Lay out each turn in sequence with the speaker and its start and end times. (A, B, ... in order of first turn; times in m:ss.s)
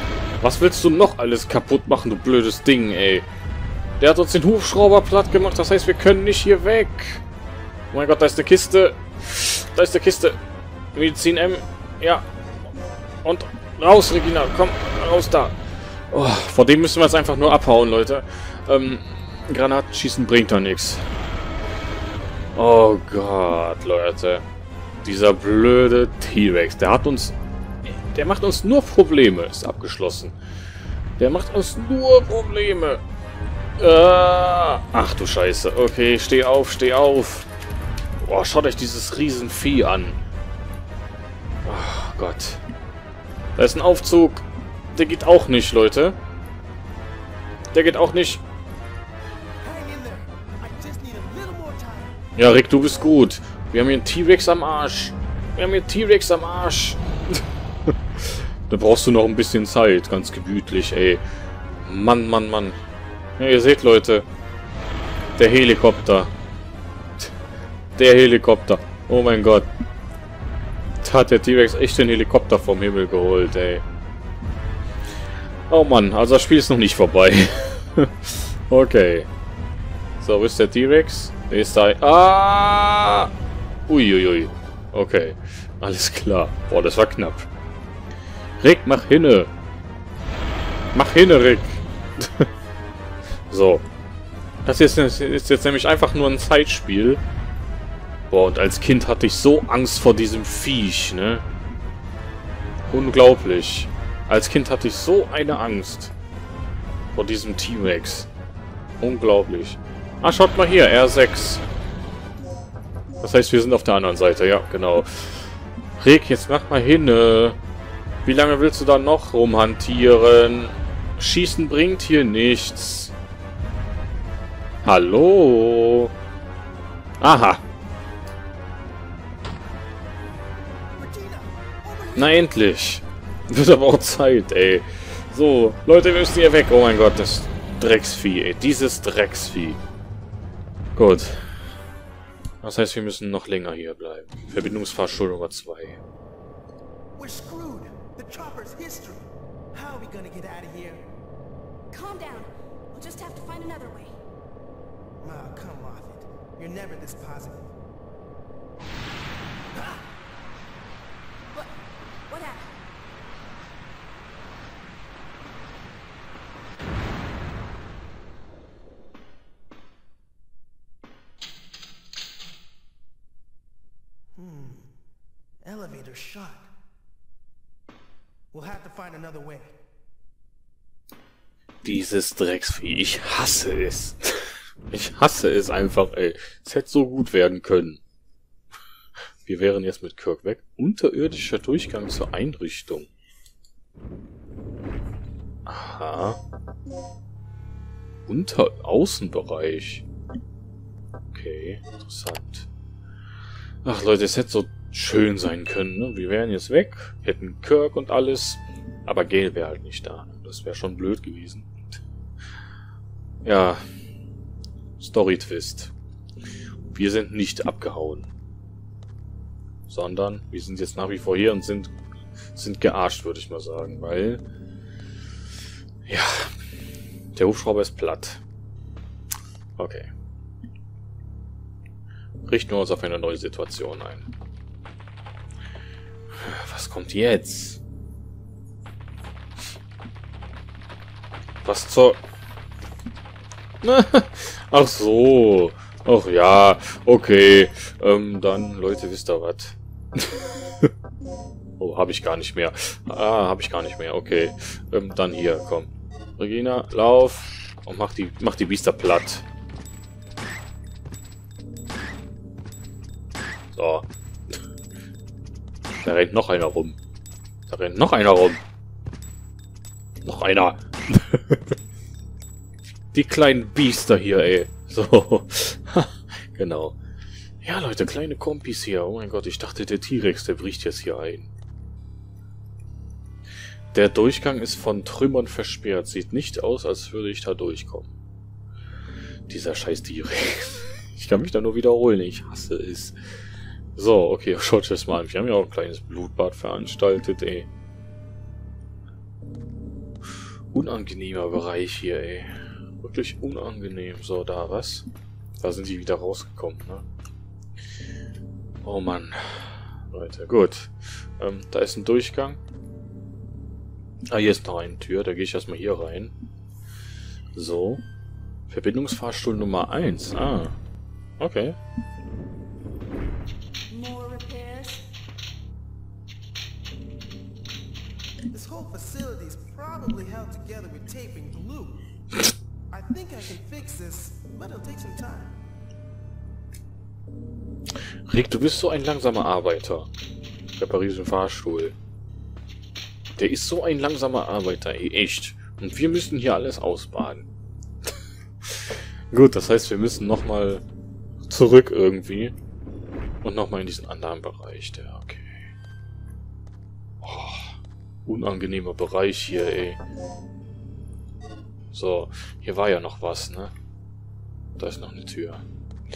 0:00.4-0:03.3 A
0:04.0-0:07.2 A
0:07.9-0:10.4 A
0:10.9-0:12.3 A
0:13.2-0:21.1 A
0:22.5-0:24.5 A
0:25.0-0:30.4 A
0:31.2-0:33.0 A
0:33.8-0:37.5 A
0:38.2-0:40.2 A
0:41.6-0:42.6 A
0:43.6-0:46.2 A
0:47.7-0:48.4 A
0:49.6-0:52.2 B
0:52.4-1:01.2 A
1:01.8-1:02.8 A
1:03.4-1:04.3 A
1:05.4-1:06.3 A
1:08.0-1:09.7 A
1:11.0-1:13.8 A
1:15.7-1:19.3 A
1:20.2-1:23.3 A
1:23.9-1:27.5 A
1:28.6-1:29.5 A
1:30.9-1:32.5 A
1:33.5-1:33.8 A
1:34.6-1:37.2 A
1:38.3-1:41.4 A
1:42.9-1:46.1 A
1:47.1-1:48.3 A
1:49.0-1:51.6 A
1:53.2-1:57.6 A
1:58.2-2:03.1 A
2:04.8-2:06.1 A
2:07.2-2:07.6 A
2:11.0-2:12.4 B
2:12.2-2:19.8 A
2:21.0-2:21.7 A
2:22.6-2:26.0 A
2:27.2-2:31.1 B
2:31.9-2:34.1 C
2:35.2-2:37.7 B
2:39.7-2:40.1 B
2:42.3-2:42.7 C
2:54.3-2:54.9 B
2:55.6-2:56.7 B
2:58.5-2:59.7 B
3:01.8-3:08.0 A
3:09.4-3:13.1 A
3:15.7-3:16.4 A
3:18.3-3:20.1 A
3:21.3-3:22.7 A
3:23.8-3:32.0 A
3:33.4-3:33.8 A
3:35.0-3:35.9 A
3:36.9-3:38.3 A
3:39.9-3:41.9 A
3:42.5-3:44.4 A
3:46.1-3:46.5 A
3:47.3-3:48.4 A
3:49.8-3:50.1 A
3:52.4-3:54.3 A
3:56.3-3:57.8 A
4:01.6-4:02.2 A
4:03.8-4:10.9 A
4:11.8-4:19.4 A
4:23.7-4:24.6 A
4:26.0-4:27.0 A
4:27.7-4:28.6 A
4:30.2-4:31.8 A
4:33.1-4:37.0 A
4:37.6-4:41.5 A
4:43.9-4:48.1 A
4:49.5-4:53.2 A
4:54.0-4:57.7 A
5:00.7-5:05.1 A
5:05.6-5:07.0 A
5:08.8-5:12.6 A
5:14.3-5:16.3 A
5:17.6-5:18.0 A
5:18.7-5:20.8 A
5:21.4-5:21.8 A
5:23.9-5:25.0 C
5:28.5-5:32.0 B
5:32.9-5:35.6 B
5:38.3-5:40.1 A
5:40.8-5:42.0 A
5:43.4-5:47.5 A
5:48.6-5:50.8 A
5:51.5-5:52.6 A
5:53.4-5:55.7 A
5:57.2-6:00.0 A
6:01.9-6:03.7 A
6:04.8-6:05.6 A